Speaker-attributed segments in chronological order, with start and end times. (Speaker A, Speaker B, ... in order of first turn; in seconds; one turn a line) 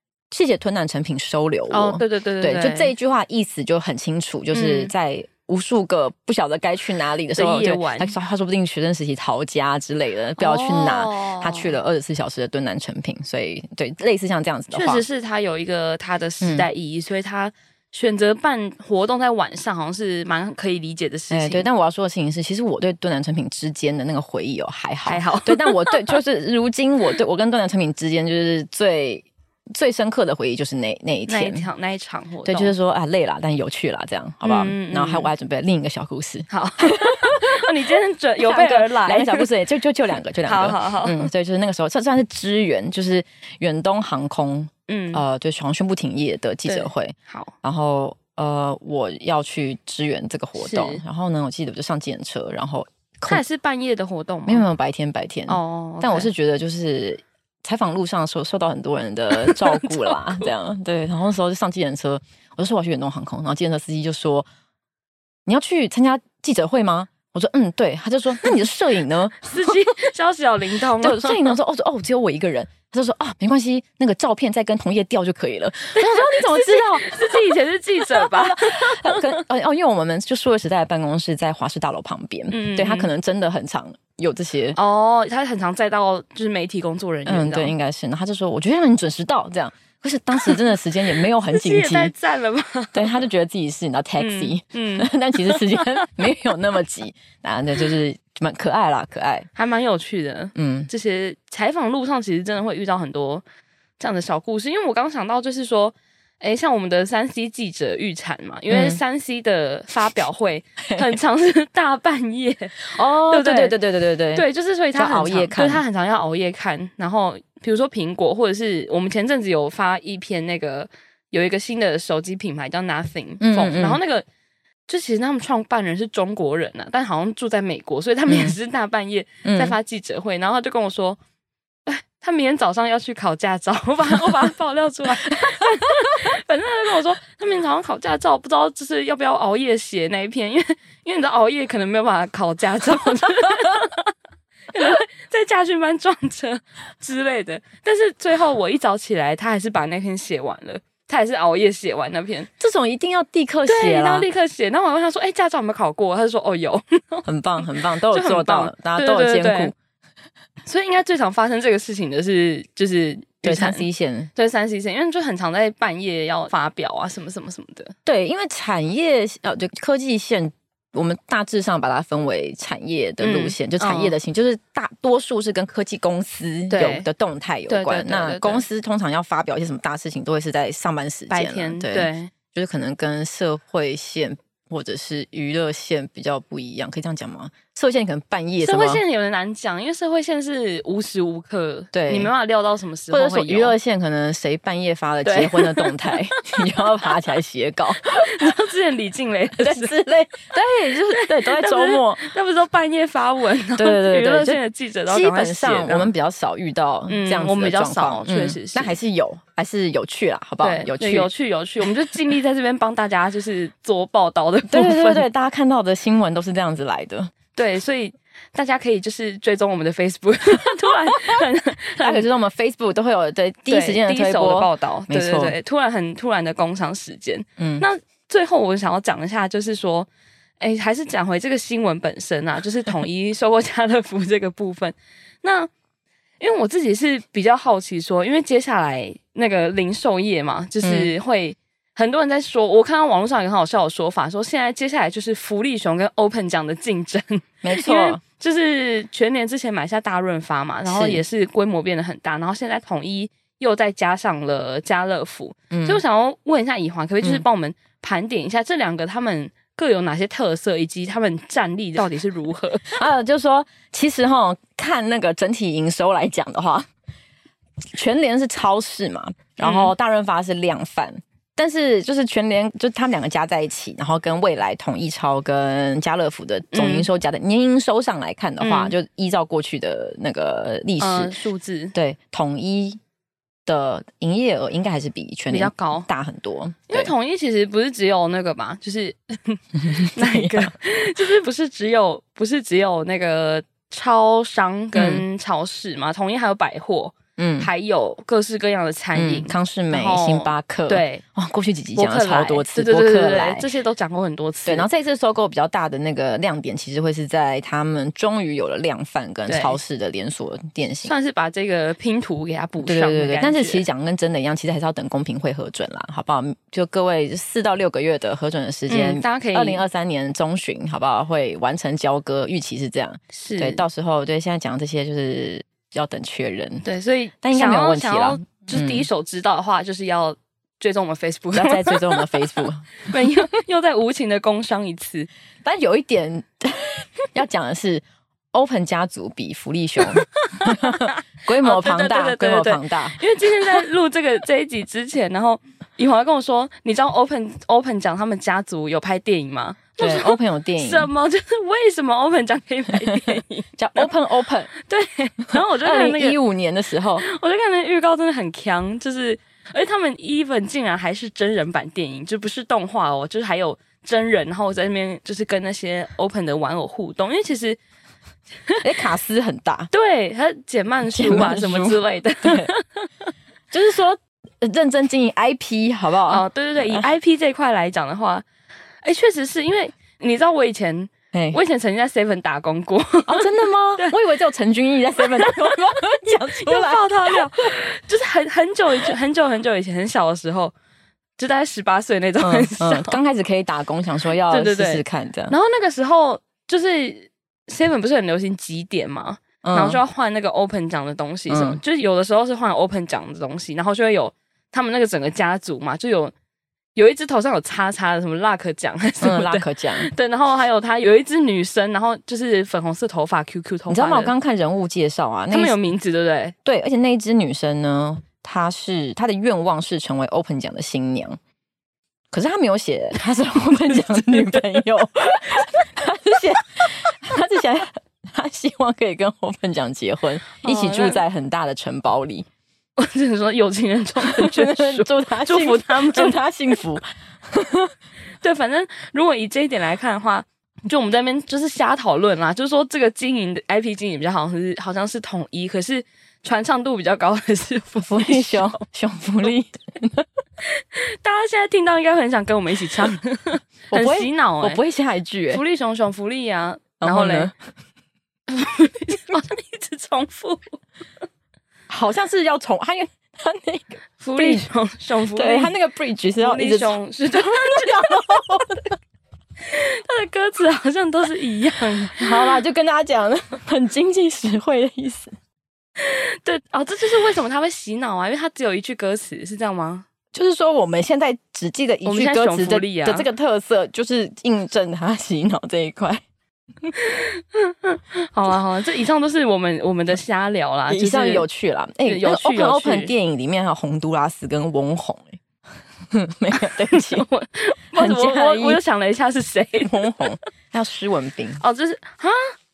Speaker A: 0.3-15.0
Speaker B: 1.7-2.9
Speaker B: 4.5-4.9
Speaker B: 7.3-8.1
Speaker B: 10.4-11.7
Speaker B: 14.7-21.7
Speaker A: 16.4-16.7
Speaker A: 21.3-31.7
Speaker B: 25.1-26.2
Speaker B: 31.3-32.7
Speaker A: 32.5-37.6
Speaker B: 34.4-35.3
Speaker B: 36.5-39.5
Speaker A: 38.4-53.4
Speaker B: 40.4-41.3
Speaker B: 44.9-45.2
Speaker B: 46.7-47.5
Speaker B: 50.6-51.0
Speaker B: 53.3-54.7
Speaker A: 54.5-64.5
Speaker B: 55.5-56.3
Speaker B: 59.3-60.5
Speaker A: 65.5-69.7
Speaker B: 69.4-71.5
Speaker A: 71.0-77.5
Speaker B: 75.9-79.4
Speaker A: 78.1-84.8
Speaker B: 82.5-83.1
Speaker B: 84.8-87.7
Speaker A: 87.3-92.1
Speaker B: 91.4-93.2
Speaker A: 92.9-99.5
Speaker B: 94.2-96.1
Speaker B: 99.5-103.4
Speaker A: 100.6-100.9
Speaker B: 104.0-113.8
Speaker A: 108.7-109.0
Speaker A: 112.9-115.8
Speaker B: 114.3-124.3
Speaker A: 123.4-124.0
Speaker B: 124.9-131.2
Speaker A: 128.3-128.6
Speaker A: 129.4-129.8
Speaker B: 131.9-144.1
Speaker B: 144.7-152.5
Speaker A: 152.6-154.3
Speaker B: 153.7-157.3
Speaker A: 157.2-159.8
Speaker B: 158.1-159.7
Speaker B: 160.7-167.9
Speaker A: 163.4-164.3
Speaker A: 168.1-189.0
Speaker B: 173.2-174.1
Speaker B: 176.7-177.1
Speaker B: 177.7-178.7
Speaker B: 181.3-182.3
Speaker B: 188.6-193.8
Speaker A: 191.9-192.3
Speaker A: 193.1-198.5
Speaker B: 195.2-197.1
Speaker B: 198.2-200.0
Speaker A: 199.6-202.2
Speaker B: 201.1-206.1
Speaker A: 203.8-211.3
Speaker B: 207.1-209.0
Speaker B: 210.6-215.2
Speaker A: 214.7-217.3
Speaker B: 217.5-222.2
Speaker A: 222.0-225.6
Speaker B: 223.7-230.1
Speaker A: 227.6-227.8
Speaker B: 230.6-235.7
Speaker B: 236.4-263.0
Speaker A: 240.8-241.1
Speaker A: 247.6-248.2
Speaker A: 250.9-251.2
Speaker A: 255.7-256.0
Speaker A: 262.9-266.9
Speaker A: 267.9-281.4
Speaker B: 269.6-269.9
Speaker B: 276.7-277.1
Speaker B: 278.6-278.9
Speaker B: 281.0-281.9
Speaker A: 281.9-283.0
Speaker A: 283.7-287.1
Speaker B: 285.5-286.1
Speaker B: 286.9-301.2
Speaker A: 289.9-290.7
Speaker A: 294.9-295.2
Speaker A: 297.4-297.7
Speaker A: 299.1-303.7
Speaker B: 302.0-304.9
Speaker A: 304.6-311.1
Speaker B: 309.5-309.8
Speaker B: 311.0-313.9
Speaker A: 312.8-326.9
Speaker B: 318.9-319.8
Speaker B: 323.3-323.8
Speaker B: 326.8-335.3
Speaker A: 327.4-329.1
Speaker A: 331.5-333.0
Speaker A: 335.6-343.9
Speaker B: 340.0-354.1
Speaker A: 350.0-351.1
Speaker A: 353.3-354.7
Speaker B: 354.8-356.4
Speaker A: 355.8-357.2
Speaker B: 357.2-367.8
Speaker A: 368.8-369.9
Speaker B: 369.9-373.3
Speaker A: 371.1-372.7
Speaker A: 373.7-377.1
Speaker B: 376.3-378.4
Speaker B: 379.0-384.2
Speaker A: 381.3-381.6
Speaker A: 383.3-387.4
Speaker B: 385.2-390.7
Speaker B: 391.4-393.2
Speaker A: 392.4-395.6
Speaker B: 394.5-406.3
Speaker A: 399.6-400.0
Speaker A: 401.5-401.8
Speaker B: 406.9-414.3
Speaker A: 409.2-410.1
Speaker A: 413.9-415.8
Speaker B: 415.5-416.6
Speaker A: 416.6-421.4
Speaker A: 422.3-432.5
Speaker B: 424.1-424.7
Speaker B: 430.6-431.2
Speaker B: 433.0-436.4
Speaker A: 434.3-437.9
Speaker B: 438.4-448.8
Speaker A: 448.0-450.3
Speaker B: 450.6-454.8
Speaker A: 453.9-455.6
Speaker B: 455.5-457.5
Speaker A: 457.0-457.5
Speaker B: 458.5-460.8
Speaker A: 461.9-464.7
Speaker B: 464.2-465.7
Speaker A: 465.4-468.9
Speaker B: 466.4-468.8
Speaker B: 469.6-472.6
Speaker A: 472.2-475.3
Speaker B: 476.0-480.1
Speaker A: 480.3-486.2
Speaker B: 482.1-483.3
Speaker B: 486.9-491.5
Speaker A: 490.9-495.4
Speaker B: 492.1-493.1
Speaker A: 496.1-497.2
Speaker B: 496.6-500.3
Speaker A: 498.0-498.8
Speaker A: 499.8-501.6
Speaker B: 501.6-502.5